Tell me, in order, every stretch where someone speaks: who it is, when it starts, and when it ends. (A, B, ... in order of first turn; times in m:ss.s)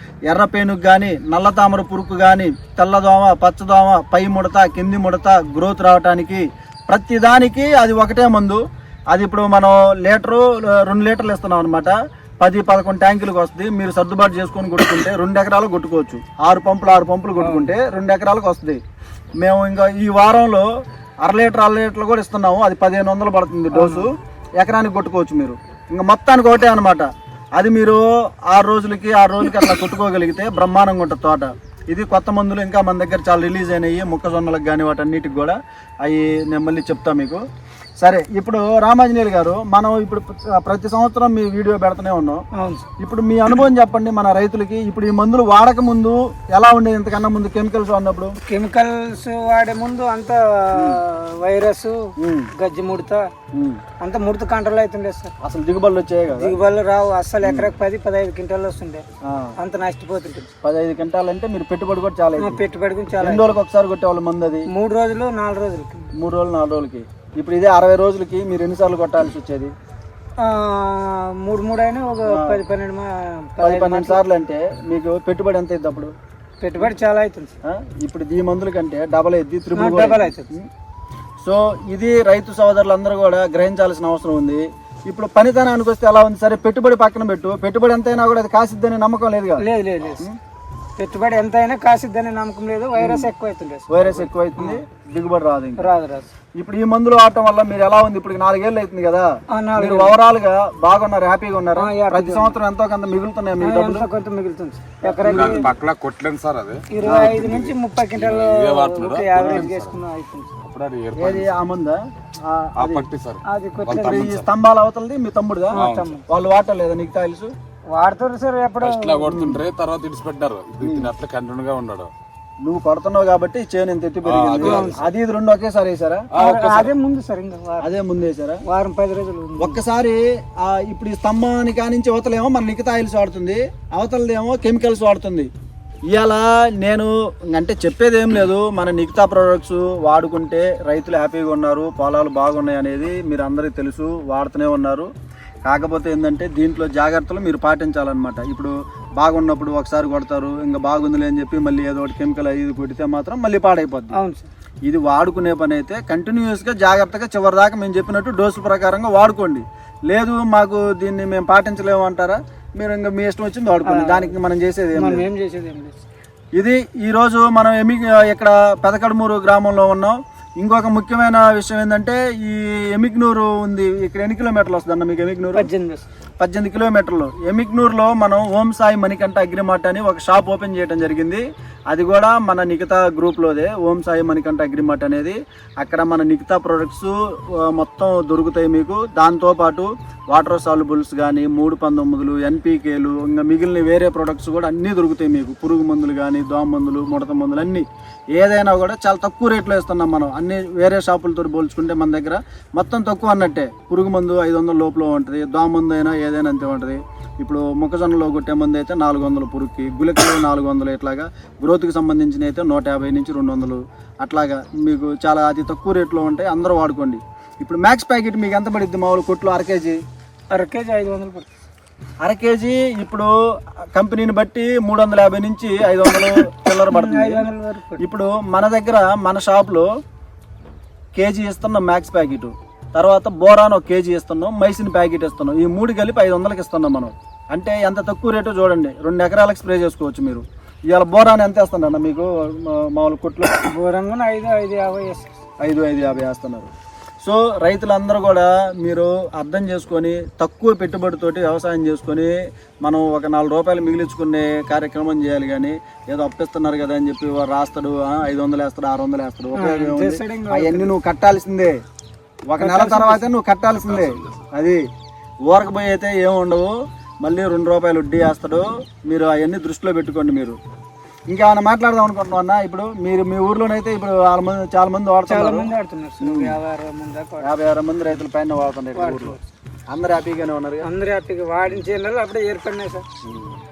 0:00.3-0:18.8 A
0:17.4-0:17.7 B
0:19.4-0:20.7 A
0:21.2-0:37.4 A
0:23.7-0:24.1 B
0:38.0-0:42.4 A
0:42.6-0:42.9 B
0:43.0-0:48.3 A
0:48.4-0:52.0 B
0:52.2-0:52.5 A
0:52.6-0:53.2 B
0:53.5-0:53.8 A
0:54.0-0:55.3 B
0:55.4-0:56.6 A
0:56.4-0:59.0 B
0:57.4-0:57.7 A
0:59.2-0:59.5 A
0:59.6-1:00.5 B
1:00.6-1:02.6 A
1:02.4-1:03.6 B
1:03.2-1:04.6 A
1:04.7-1:06.1 B
1:06.2-1:09.7 A
1:10.4-1:14.2 B
1:12.3-1:12.6 A
1:13.6-1:16.1 A
1:16.6-1:17.5 B
1:17.6-1:20.7 A
1:19.7-1:20.5 B
1:21.4-1:29.6 A
1:29.6-1:30.2 B
1:31.0-1:34.8 B
1:33.0-1:33.3 A
1:33.9-1:35.9 A
1:35.8-1:36.3 B
1:36.6-1:44.1 A
1:39.5-1:40.2 B
1:41.8-1:42.6 B
1:43.6-1:45.7 B
1:45.1-1:45.7 A
1:45.2-1:46.8 C
1:46.9-1:50.5 B
1:47.0-1:47.7 A
1:47.4-1:49.9 C
1:50.6-1:51.5 C
1:51.2-1:53.1 A
1:52.8-1:54.5 C
1:53.4-1:54.3 B
1:53.9-1:57.5 A
1:55.7-1:56.2 B
1:55.7-1:56.1 C
1:57.9-1:59.3 B
1:58.8-2:02.1 C
1:59.2-1:59.6 A
2:00.8-2:01.1 A
2:02.6-2:06.3 A
2:04.2-2:05.1 C
2:04.6-2:05.0 B
2:06.3-2:06.9 C
2:06.4-2:07.9 B
2:07.8-2:08.6 A
2:08.6-2:09.8 B
2:09.6-2:15.5 A
2:16.1-2:25.1 A
2:25.6-2:34.1 A
2:34.1-2:34.5 B
2:34.8-2:45.3 A
2:43.8-2:44.3 B
2:45.0-2:46.0 B
2:46.6-2:55.7 A
2:55.5-2:56.1 B
2:56.4-3:40.0 A
3:40.5-3:41.5 B
3:42.2-3:43.3 A
3:43.9-3:49.9 A
3:46.9-3:48.0 B
3:51.1-4:03.5 A
4:03.7-4:05.4 B
4:05.6-4:06.7 A
4:07.2-4:21.7 A
4:19.5-4:20.9 B
4:22.5-4:24.8 A
4:22.6-4:23.3 B
4:23.9-4:24.4 C
4:25.5-4:30.6 A
4:31.3-4:36.6 A
4:35.3-4:37.5 B
4:37.4-4:39.4 A
4:38.9-4:39.4 B
4:39.9-4:40.9 A
4:40.8-4:43.1 B
4:43.2-4:43.5 A